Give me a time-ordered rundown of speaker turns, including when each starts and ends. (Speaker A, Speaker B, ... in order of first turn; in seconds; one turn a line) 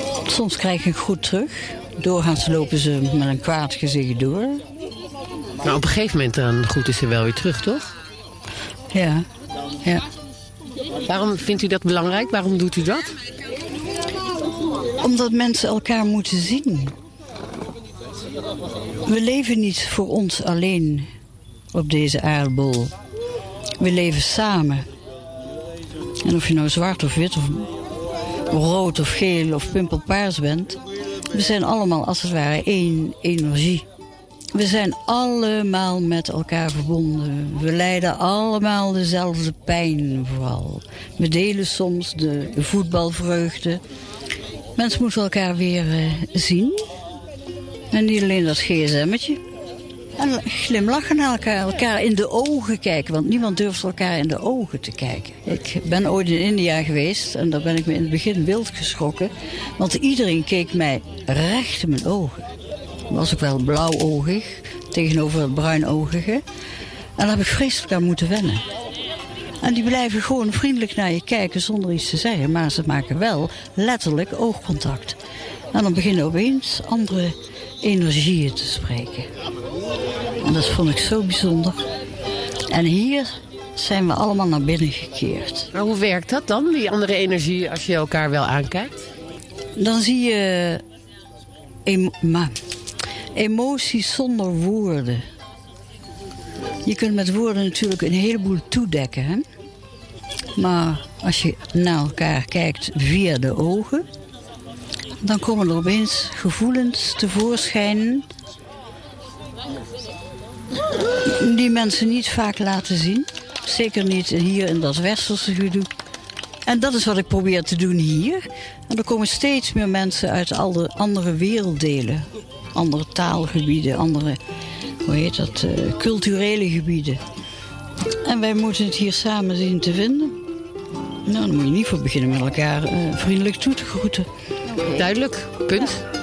Speaker A: 0.2-4.6
Speaker B: 5.6-7.9
Speaker A: 8.9-9.2
Speaker B: 11.1-13.1
Speaker A: 15.0-16.9
Speaker A: 19.1-21.1
Speaker A: 21.7-22.9
Speaker A: 23.8-24.8
Speaker A: 26.2-27.7
Speaker A: 28.5-30.8
Speaker A: 31.3-33.8
Speaker A: 34.5-43.8
Speaker A: 44.8-46.8
Speaker A: 47.9-49.4
Speaker A: 50.2-62.4
Speaker A: 63.1-66.4
Speaker A: 67.2-68.6
Speaker A: 69.6-75.2
Speaker A: 75.7-79.3
Speaker A: 80.4-81.8
Speaker A: 82.7-85.7
Speaker B: 85.7-89.0
Speaker A: 89.8-90.8
Speaker A: 91.8-92.5
Speaker A: 93.3-95.2
Speaker A: 96.8-99.4
Speaker A: 100.5-104.0
Speaker A: 105.2-108.2
Speaker A: 111.3-115.9
Speaker A: 116.7-124.4
Speaker A: 125.0-127.2
Speaker A: 128.2-130.4
Speaker A: 131.2-135.1
Speaker B: 134.9-136.0